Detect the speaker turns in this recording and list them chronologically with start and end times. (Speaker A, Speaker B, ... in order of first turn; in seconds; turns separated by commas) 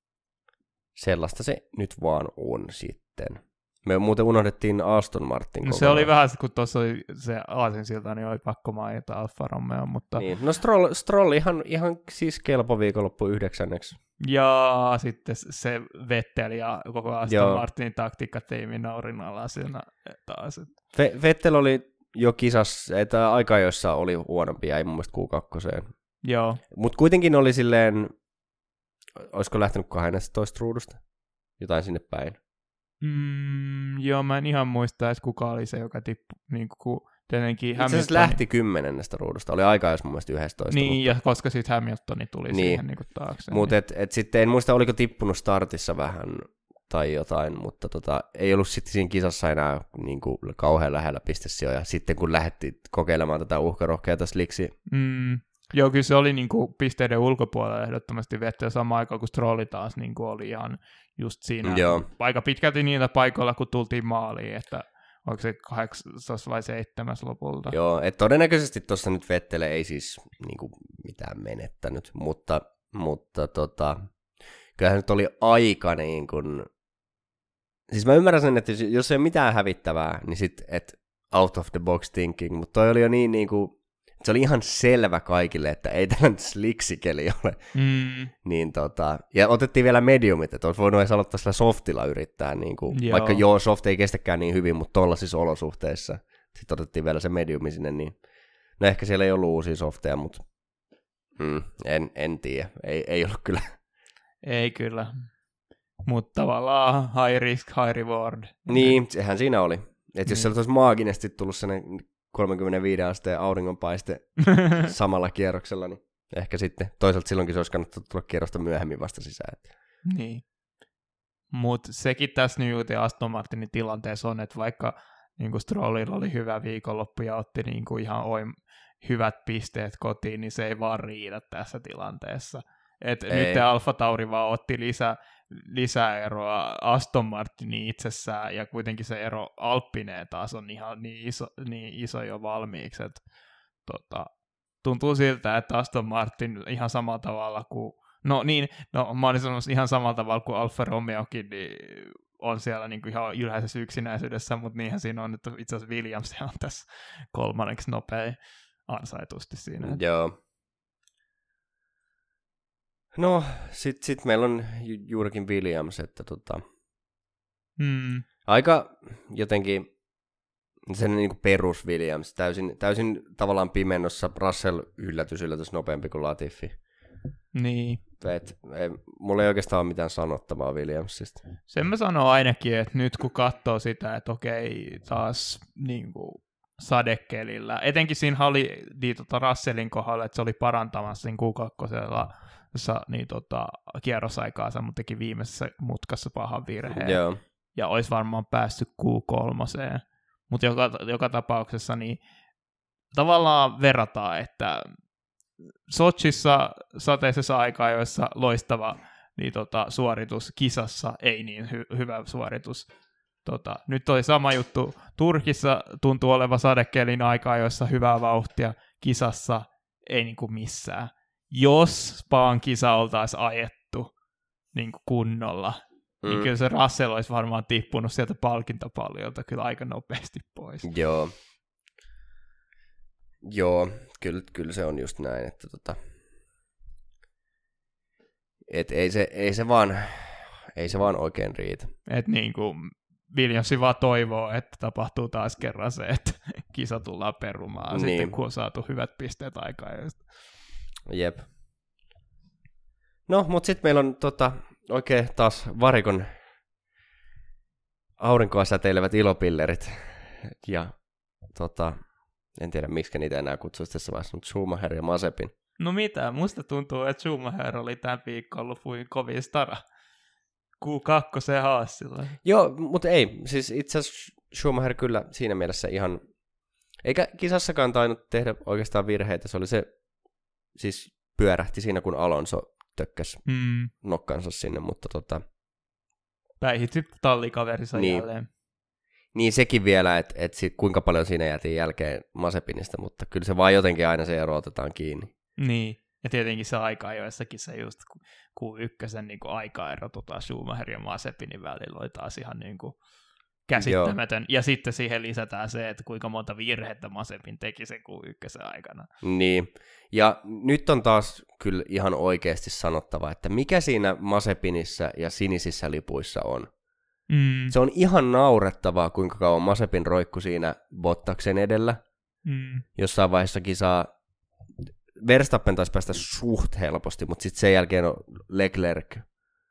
Speaker A: 1.0-6.1, Speaker B: 5.6-10.3, Speaker A: 10.2-14.0, Speaker B: 14.2-20.7, Speaker A: 17.3-17.6, Speaker A: 20.9-25.9, Speaker B: 26.2-26.6, Speaker A: 26.7-28.1, Speaker A: 29.2-31.0, Speaker A: 31.6-32.4, Speaker B: 33.0-38.4, Speaker A: 37.8-41.1, Speaker B: 40.7-43.8, Speaker A: 42.5-42.9, Speaker A: 43.5-54.7, Speaker B: 54.9-67.8, Speaker A: 61.6-62.0, Speaker A: 67.7-74.1, Speaker A: 74.8-76.7, Speaker A: 77.9-87.7, Speaker B: 87.8-88.3, Speaker A: 88.4-98.2, Speaker B: 92.9-93.4, Speaker A: 98.8-100.4, Speaker A: 101.4-103.8, Speaker B: 104.4-105.3, Speaker B: 106.0-109.0, Speaker A: 108.7-119.7, Speaker B: 114.6-114.8, Speaker B: 120.0-120.5, Speaker B: 121.5-143.2, Speaker A: 133.3-133.6, Speaker B: 143.8-160.0, Speaker A: 159.8-160.3, Speaker A: 163.1-166.6, Speaker B: 167.8-168.3, Speaker A: 168.5-169.9, Speaker A: 170.9-176.8, Speaker B: 177.5-178.0, Speaker A: 178.2-181.4, Speaker B: 181.7-197.2, Speaker A: 196.9-197.4, Speaker B: 197.8-202.2, Speaker B: 203.1-204.9, Speaker B: 205.9-212.9, Speaker B: 213.4-224.1, Speaker B: 224.7-230.9, Speaker A: 226.2-226.5, Speaker A: 230.8-231.3, Speaker A: 233.4-236.0, Speaker A: 238.7-241.9, Speaker B: 242.1-250.3, Speaker A: 247.9-248.3, Speaker A: 251.1-251.5, Speaker A: 253.3-256.3, Speaker A: 258.2-261.0, Speaker A: 261.5-262.0, Speaker A: 262.6-265.5, Speaker B: 265.8-269.8, Speaker B: 270.8-272.4, Speaker A: 272.4-276.2, Speaker A: 277.0-279.9, Speaker A: 280.8-283.4, Speaker B: 283.5-283.9, Speaker A: 283.9-285.4, Speaker B: 286.6-288.5, Speaker A: 287.9-288.2, Speaker A: 289.4-295.3, Speaker B: 295.6-303.0, Speaker B: 303.7-309.1, Speaker A: 303.8-304.1, Speaker A: 309.2-316.7, Speaker B: 317.3-317.7, Speaker A: 317.7-322.0, Speaker B: 322.5-322.9, Speaker A: 323.0-324.1, Speaker A: 325.2-329.2